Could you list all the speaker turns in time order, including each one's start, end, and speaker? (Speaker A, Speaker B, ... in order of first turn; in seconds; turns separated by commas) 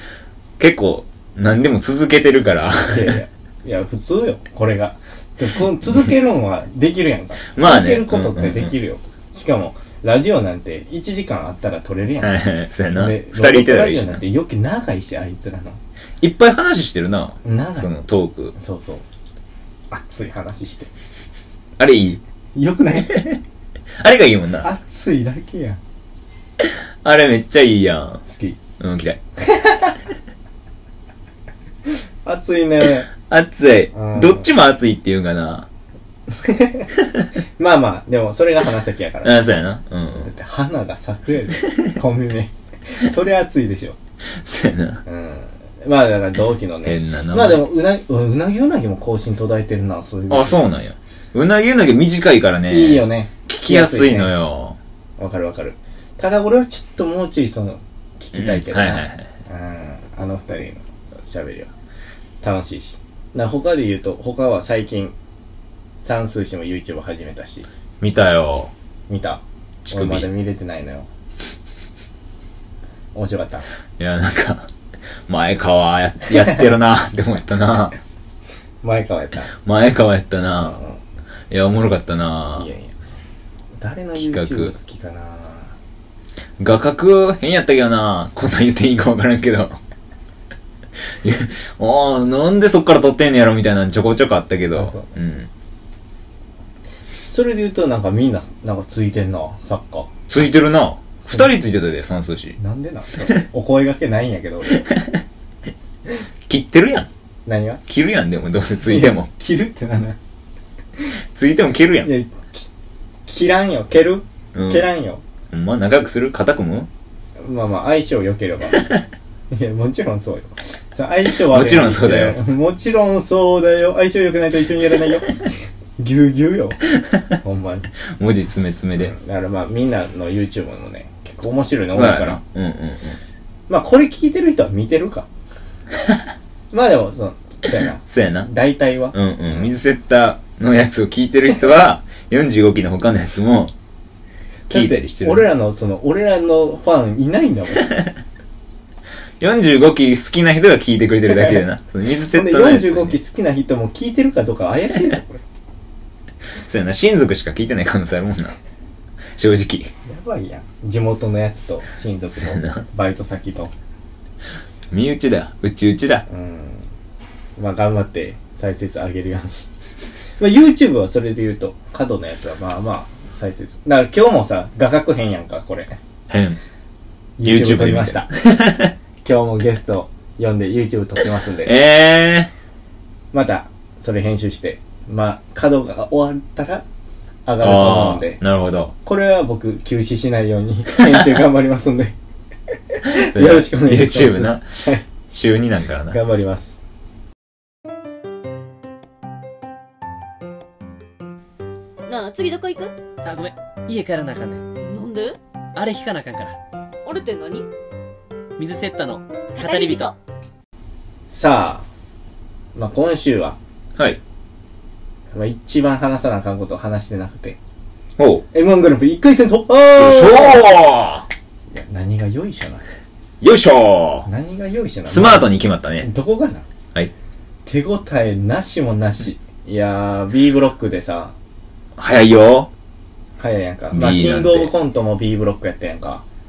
Speaker A: 0.6-3.2, Speaker B: 2.9-12.4, Speaker A: 7.5-8.7, Speaker A: 12.2-14.2, Speaker B: 12.9-15.8, Speaker A: 16.2-18.5, Speaker B: 17.4-17.9, Speaker B: 18.6-19.0, Speaker B: 19.9-20.9, Speaker A: 21.8-22.2, Speaker B: 22.5-23.2, Speaker A: 23.0-23.4, Speaker A: 24.0-24.7, Speaker B: 24.6-25.8, Speaker A: 26.6-28.2, Speaker B: 28.2-28.6, Speaker A: 28.8-29.2, Speaker B: 29.4-30.0, Speaker B: 31.9-33.1, Speaker A: 33.1-35.7, Speaker B: 33.9-34.5, Speaker B: 36.3-36.9, Speaker B: 37.6-39.4, Speaker A: 39.2-40.3, Speaker B: 40.2-44.0, Speaker A: 44.3-45.0, Speaker B: 45.0-50.6, Speaker A: 46.8-47.6, Speaker A: 50.3-54.8, Speaker B: 52.7-54.3, Speaker B: 55.2-61.7, Speaker A: 58.3-59.3, Speaker B: 62.4-65.1, Speaker B: 66.0-67.7, Speaker A: 68.0-68.7, Speaker B: 69.1-71.1, Speaker A: 69.8-70.3, Speaker B: 73.1-73.6, Speaker A: 74.0-74.7, Speaker A: 75.3-77.9, Speaker B: 78.8-79.5, Speaker A: 79.6-80.8, Speaker B: 80.5-81.0, Speaker A: 81.5-82.7, Speaker B: 82.5-82.9, Speaker B: 83.8-85.7, Speaker A: 84.2-84.7, Speaker A: 86.6-89.8, Speaker A: 91.2-95.5, Speaker B: 94.7-95.1, Speaker B: 97.3-100.1, Speaker A: 100.3-102.6, Speaker B: 102.6-104.8, Speaker A: 106.5-107.1, Speaker B: 107.5-107.8, Speaker A: 107.9-109.3, Speaker B: 108.8-110.2, Speaker A: 111.3-112.1, Speaker B: 112.0-112.7, Speaker B: 113.3-115.2, Speaker A: 114.5-114.8, Speaker A: 115.5-116.9, Speaker B: 117.4-118.9, Speaker B: 119.5-125.4, Speaker A: 121.3-122.4, Speaker B: 126.0-126.8, Speaker B: 127.4-127.9, Speaker A: 128.1-129.1, Speaker B: 129.0-132.4, Speaker A: 131.9-133.2, Speaker B: 133.7-135.3, Speaker B: 136.7-139.7, Speaker A: 138.0-138.5, Speaker A: 139.1-143.7, Speaker A: 144.7-145.5, Speaker B: 144.7-148.0, Speaker A: 149.4-153.2, Speaker B: 151.3-151.6, Speaker B: 152.3-155.4, Speaker A: 156.7-158.6, Speaker A: 159.4-159.9, Speaker B: 160.1-163.7, Speaker A: 162.3-162.8, Speaker A: 164.9-166.2, Speaker B: 166.3-166.9, Speaker B: 167.6-169.6, Speaker B: 170.4-175.9, Speaker A: 176.3-176.6, Speaker B: 177.4-178.3, Speaker A: 177.4-178.9, Speaker B: 179.2-181.7, Speaker A: 181.6-182.5, Speaker B: 183.3-186.8, Speaker B: 187.4-188.4, Speaker A: 187.6-188.9, Speaker B: 189.0-192.1, Speaker B: 192.9-195.0, Speaker A: 193.1-194.7, Speaker A: 195.3-196.2, Speaker B: 196.1-196.8, Speaker C: 202.1-202.9, Speaker D: 203.2-204.6, Speaker C: 204.8-205.4, Speaker D: 205.7-206.6, Speaker C: 207.0-207.7, Speaker D: 208.6-210.1, Speaker C: 209.6-210.1, Speaker B: 211.3-211.8, Speaker B: 212.7-213.6, Speaker B: 215.3-217.6, Speaker A: 218.2-218.4, Speaker B: 218.5-220.7, Speaker A: 220.0-221.3, Speaker B: 221.7-222.8, Speaker A: 223.4-224.3, Speaker B: 224.2-226.6, Speaker A: 225.1-226.1, Speaker B: 227.7-231.3, Speaker A: 232.0-232.7, Speaker B: 233.4-236.2, Speaker A: 233.9-234.7